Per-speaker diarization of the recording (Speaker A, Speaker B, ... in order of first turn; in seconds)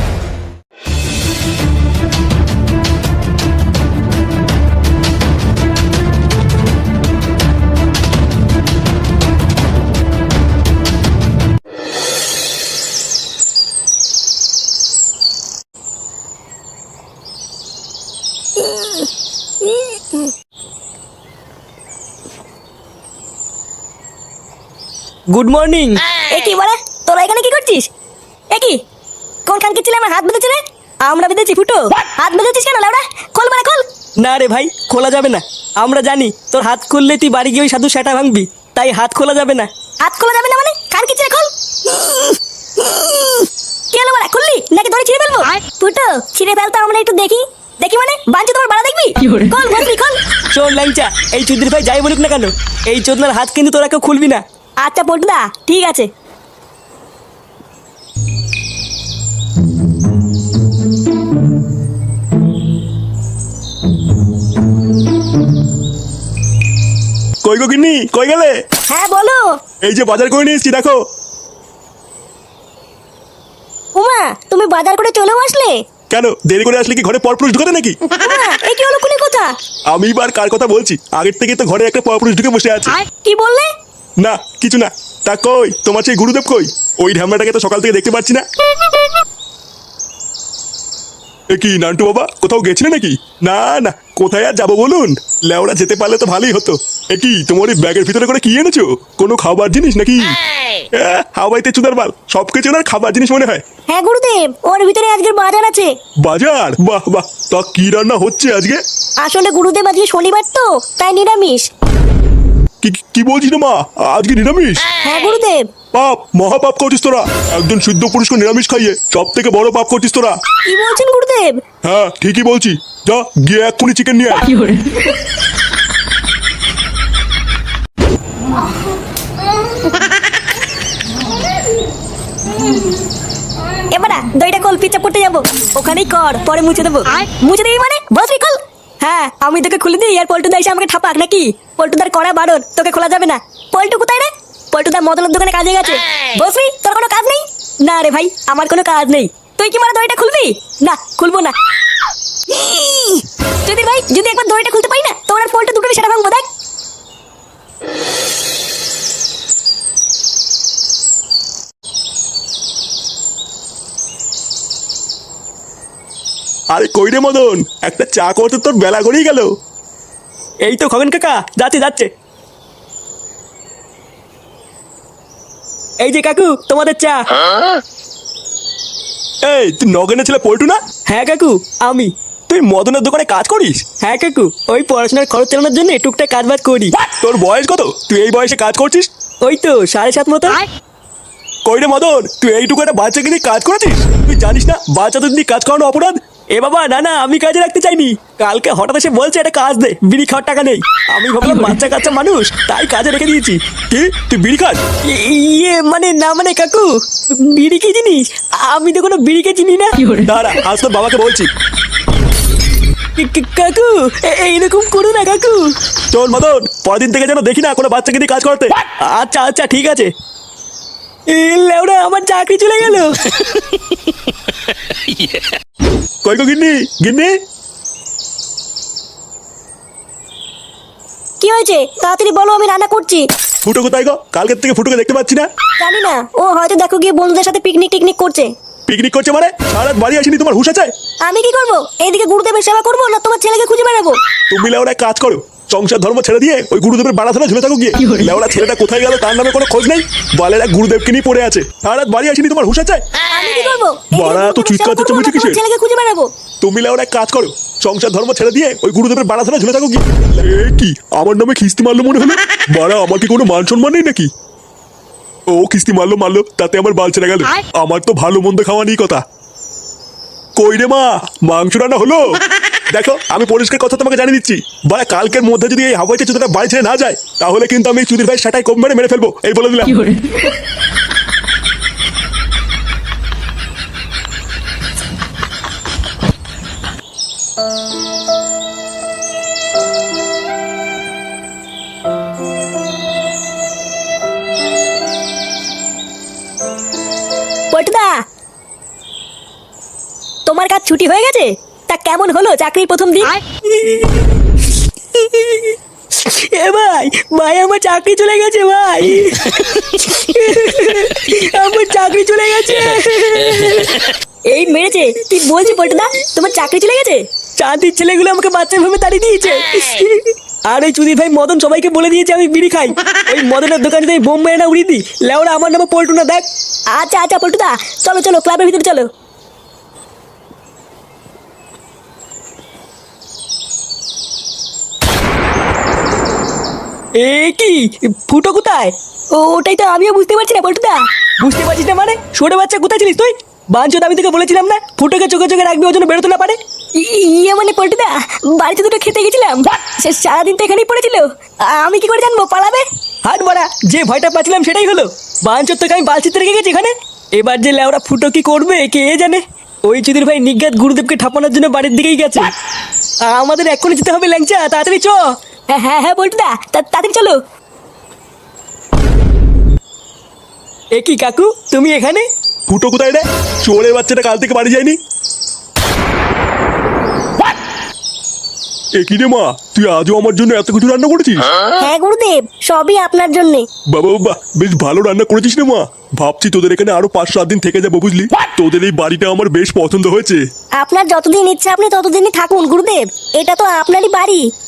Speaker A: 25.3-26.0, 34.2-39.7, 50.5-54.4, 170.7-172.1, 176.0-177.2, 181.1-182.1, 184.0-186.9, 189.4-190.7, 196.6-203.6, 205.1-210.2, 213.2-215.7, 219.1-220.1, 221.3-223.2, 303.6-304.3, 305.1-314.1, 317.6-326.4, 337.2-338.9, 341.4-346.6, 353.3-362.5, 363.2-365.2, 370.9-372.3
Speaker B: 26.2-27.9, 28.5-28.8, 29.4-33.8, 40.0-50.2, 54.8-56.1, 68.9-69.4, 73.9-75.8, 78.2-79.5, 83.2-83.7, 103.9-105.9, 109.2-111.7, 115.0-115.7, 120.7-121.6, 133.9-151.6, 152.5-156.4, 231.4-233.2, 235.8-238.5, 241.2-244.2, 253.3-256.3, 297.7-298.2, 300.4-303.4, 314.5-317.2, 326.9-329.1, 339.3-341.0, 346.9-352.9, 365.7-367.4, 381.8-383.6, 390.8-394.4
Speaker C: 67.4-68.5, 69.8-71.0, 76.1-78.0, 79.9-83.0, 84.2-88.4, 91.5-100.3, 101.0-103.6, 106.2-108.8, 112.8-114.8, 115.9-120.3, 121.8-124.5, 166.7-169.5, 179.4-180.8, 182.5-183.8, 187.2-189.1, 191.7-196.2, 203.9-204.8, 210.2-211.5, 216.1-218.7, 226.2-227.3, 233.7-235.5, 238.9-240.9, 244.5-253.0, 254.1-255.6, 256.6-264.3, 265.5-269.2, 270.6-272.2, 272.9-280.1, 372.7-375.0, 379.0-381.5, 383.9-390.4